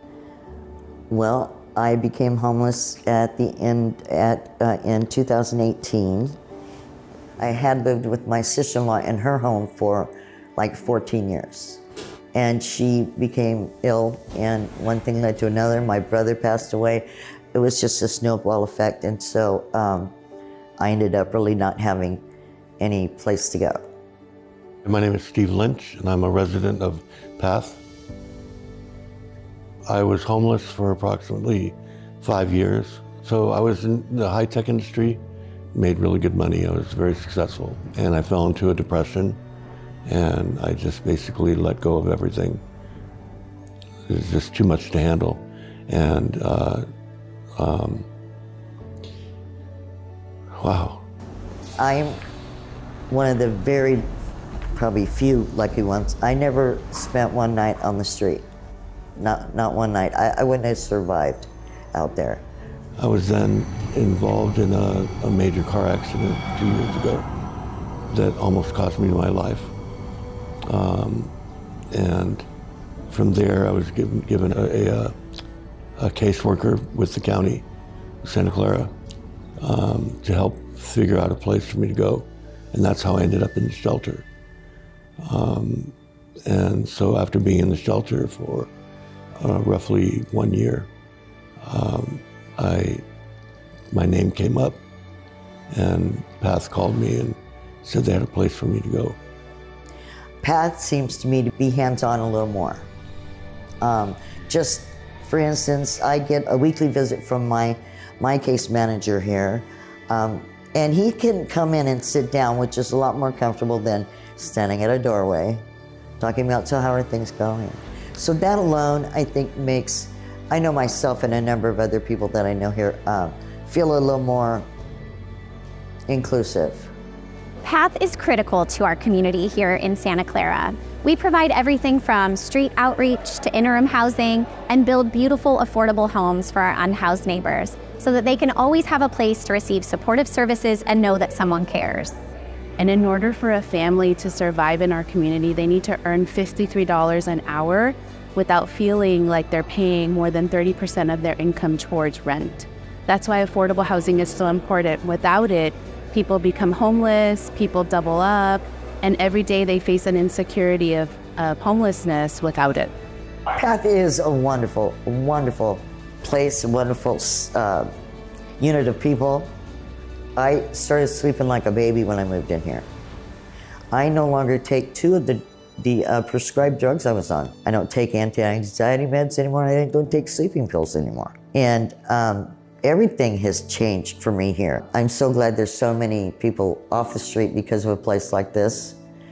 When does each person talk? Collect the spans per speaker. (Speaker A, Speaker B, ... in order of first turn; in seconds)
Speaker A: 1.1-6.4, 7.4-11.8, 12.3-20.1, 20.8-22.2, 22.8-23.8, 51.8-52.2, 53.1-54.1, 54.8-58.5, 59.2-62.4, 100.4-102.9, 103.8-115.6, 116.2-124.7, 126.1-126.9, 163.5-167.9, 168.6-169.5, 170.4-172.9, 173.9-189.0
Speaker B: 24.9-27.8, 29.9-39.4, 40.1-42.6, 44.1-46.9, 47.6-48.1, 50.6-51.0, 63.0-67.3, 68.1-69.7, 70.7-71.3, 71.9-72.5, 73.1-75.1, 76.0-77.7, 78.2-78.9, 79.6-84.3, 85.2-85.9, 86.5-88.7, 89.4-90.9, 91.6-93.0, 93.9-94.8, 95.7-99.2
Speaker C: 127.6-142.2
Speaker D: 142.8-162.9